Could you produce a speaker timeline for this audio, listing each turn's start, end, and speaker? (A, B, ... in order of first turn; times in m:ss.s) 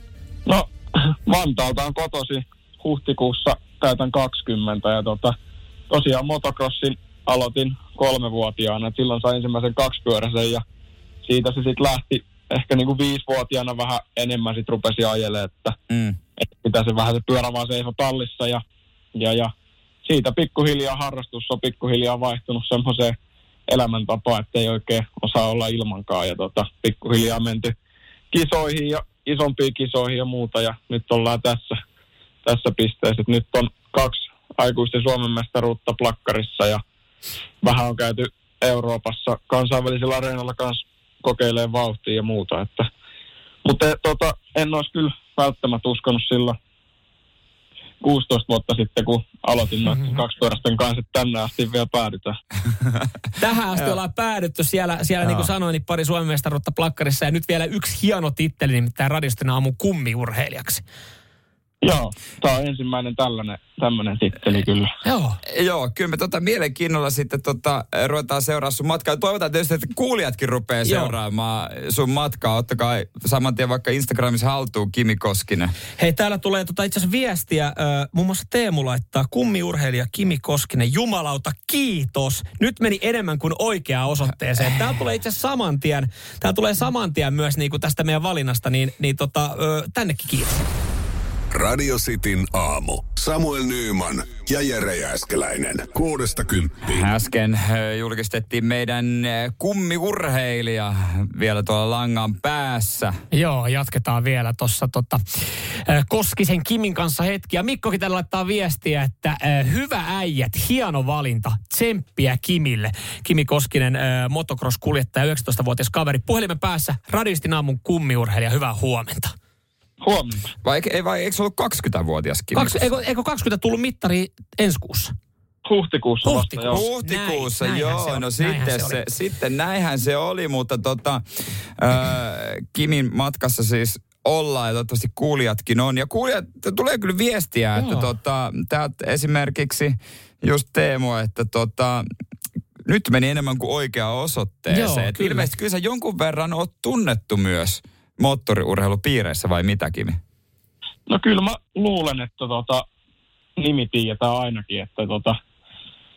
0:00.5-0:05.3 A
0:05.9-0:10.6 A
0:11.2-0:15.8 A
0:15.9-0:16.2 B
0:16.4-0:18.6 A
0:19.1-0:19.5 A
0:20.0-0:23.1 A
0:23.7-0:27.7 A
0:28.3-0:31.8 A
0:32.4-0:36.8 A
0:37.6-0:42.9 A
0:43.6-0:46.6 A
0:48.0-0:52.4 A
0:49.9-0:50.2 C
0:53.4-1:00.8 C
1:01.8-1:04.9 A
1:05.0-1:05.4 C
1:05.5-1:15.7 B
1:10.8-1:11.1 C
1:16.0-1:30.6 C
1:31.5-1:37.1 D
1:36.8-1:43.1 B
1:43.3-1:45.2 C
1:45.8-1:59.3 C
2:00.0-2:00.5 A
2:00.6-2:02.8 B
2:02.5-2:05.1 C
2:05.6-2:06.8 A
2:06.2-2:09.0 C
2:06.7-2:11.2 B
2:11.8-2:22.0 B
2:17.8-2:18.1 C
2:22.9-2:30.2 B
2:24.7-2:25.5 C
2:31.1-2:32.8 A
2:33.6-2:35.4 A